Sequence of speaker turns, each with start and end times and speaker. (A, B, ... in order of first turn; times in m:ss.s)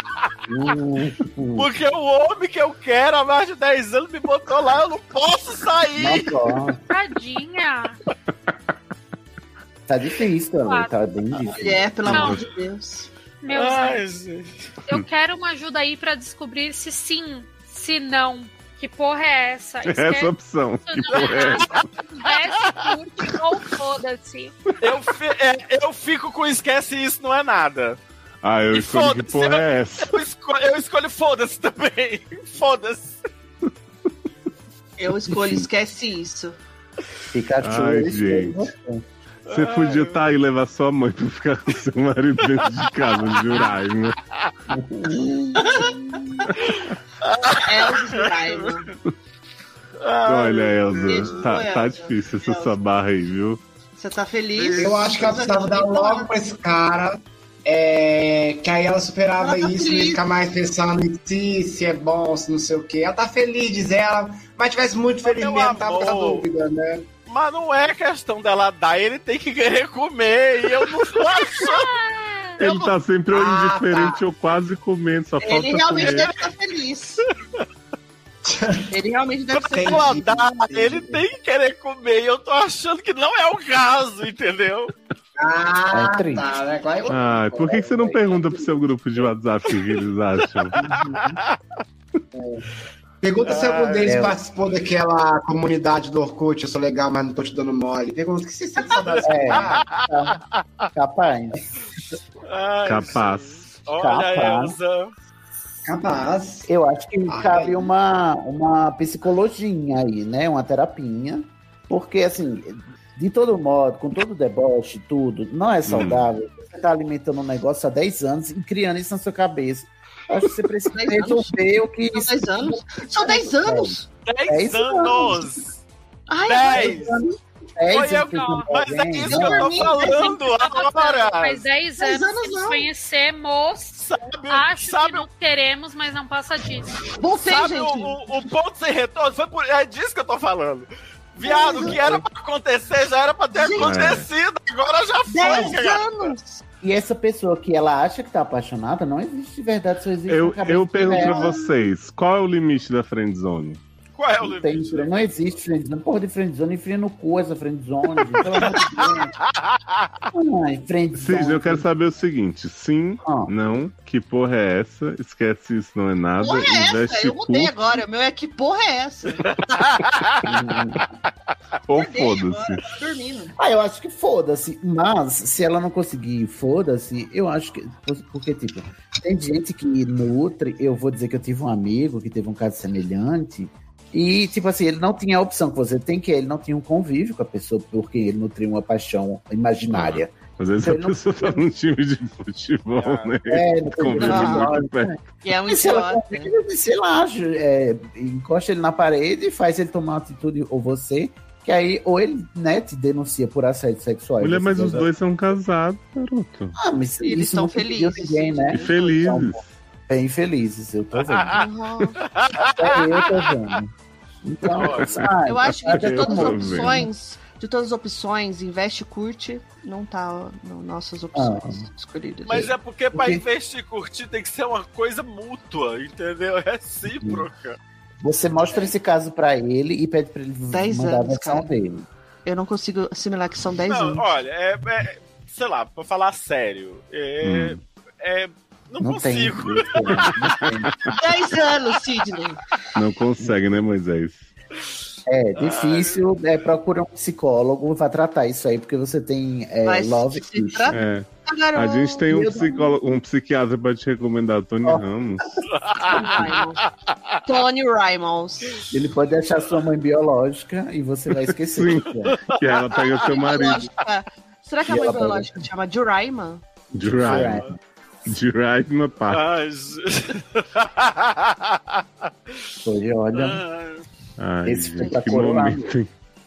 0:00.5-0:01.7 A
0:01.5-0:06.3 B
0:06.0-0:06.8 A
0:06.9-0:08.0 C
0:09.9-0:12.4 A
0:10.6-0:10.9 C
0:11.5-0:13.1 D
0:12.1-0:12.4 C
0:13.4-0:14.0 C
0:13.5-0:14.7 B
0:14.9-0:20.3 C
0:19.8-0:21.7 E
0:20.8-0:24.5 C
0:21.1-0:22.8 B
0:24.8-0:28.0 B
0:28.4-0:30.2 E
0:28.7-0:33.2 B
0:35.0-0:36.6 D
0:37.3-0:39.0 A
0:37.6-0:38.6 E
0:39.5-0:40.2 B
0:39.5-0:44.2 E
0:43.3-0:43.7 B
0:44.7-0:46.2 A
0:45.6-0:45.9 D
0:46.5-0:48.9 B
0:47.6-0:48.9 D
0:50.0-0:51.5 B
0:50.2-0:53.6 E
0:51.0-0:52.7 D
0:54.0-0:56.3 D
0:54.7-1:07.0 F
0:59.4-1:00.2 D
1:05.2-1:06.4 B
1:07.3-1:11.9 B
1:11.4-1:12.6 C
1:12.6-1:16.3 E
1:12.6-1:12.9 B
1:13.3-1:14.2 F
1:15.4-1:17.2 D
1:18.4-1:18.9 F
1:18.9-1:20.2 D
1:19.5-1:24.9 B
1:19.7-1:21.2 F
1:25.4-1:28.5 F
1:25.9-1:26.4 A
1:27.1-1:30.8 E
1:30.8-1:31.4 A
1:30.9-1:31.6 B
1:32.3-1:32.6 F
1:33.2-1:39.8 F
1:33.4-1:34.1 B
1:34.0-1:34.4 A
1:38.9-1:40.9 B
1:39.2-1:40.4 A
1:40.9-1:41.7 A
1:42.4-1:45.1 B
1:42.8-1:43.7 E
1:43.9-1:44.8 A
1:45.8-1:46.7 F
1:46.6-2:05.7 A
1:47.3-1:47.9 F
1:55.8-1:56.3 E
2:00.9-2:01.6 D
2:02.1-2:04.0 D
2:04.2-2:05.7 B
2:06.3-2:07.1 D
2:06.4-2:07.2 B
2:06.6-2:09.8 A
2:07.9-2:11.6 B
2:07.9-2:08.7 C
2:09.2-2:10.4 D
2:09.4-2:17.0 C
2:12.0-2:12.9 D
2:14.0-2:15.2 B
2:17.2-2:18.2 D
2:17.4-2:26.3 B
2:21.4-2:22.0 D
2:21.8-2:22.2 A
2:23.6-2:24.1 D
2:23.8-2:24.3 E
2:25.3-2:26.6 D
2:25.4-2:25.8 A
2:26.8-2:31.6 A
2:30.3-2:33.8 E
2:31.1-2:31.6 D
2:34.1-2:35.4 B
2:34.4-2:39.4 A
2:38.5-2:40.1 B
2:40.3-2:41.8 A
2:41.2-2:47.8 E
2:43.2-2:43.5 A
2:46.4-2:49.5 D
2:49.4-2:50.4 B
2:50.4-2:51.0 A
2:51.9-2:52.8 E
2:51.9-2:53.5 D
2:53.6-3:11.6 A
3:09.9-3:15.2 E
3:13.0-3:13.4 B
3:13.5-3:25.1 A
3:14.2-3:14.7 D
3:15.4-3:16.5 D
3:24.4-3:26.8 E
3:26.7-3:31.7 A
3:27.2-3:29.3 D
3:28.7-3:29.6 E
3:31.5-3:32.2 D
3:32.2-3:33.4 B
3:32.6-3:37.1 A
3:34.7-3:35.2 B
3:35.0-3:35.2 E
3:35.4-3:42.7 D
3:35.8-3:37.0 E
3:41.3-3:41.8 A
3:42.4-3:47.8 B
3:42.6-3:43.4 A
3:47.2-3:47.4 A
3:48.2-3:52.0 A
3:50.7-3:51.7 D
3:52.4-3:54.2 D
3:53.8-4:00.6 B
3:57.4-3:57.8 E
3:59.0-4:00.9 A
4:01.2-4:02.6 D
4:02.9-4:04.4 E
4:05.3-4:11.0 A
4:05.6-4:06.2 B
4:09.8-4:12.2 D
4:10.9-4:15.4 E
4:12.3-4:13.0 A
4:15.7-4:17.4 B
4:16.0-4:16.8 D
4:17.4-4:18.8 D
4:18.9-4:22.4 A
4:21.7-4:23.9 E
4:22.3-4:23.0 B
4:22.9-4:26.6 D
4:24.8-4:25.6 A
4:26.9-4:27.6 E
4:27.1-4:27.8 A
4:27.2-4:27.7 B
4:28.2-4:29.4 E
4:29.3-4:32.6 B
4:32.8-4:33.6 A
4:33.3-4:34.0 B
4:34.4-4:36.1 E
4:34.6-4:36.0 A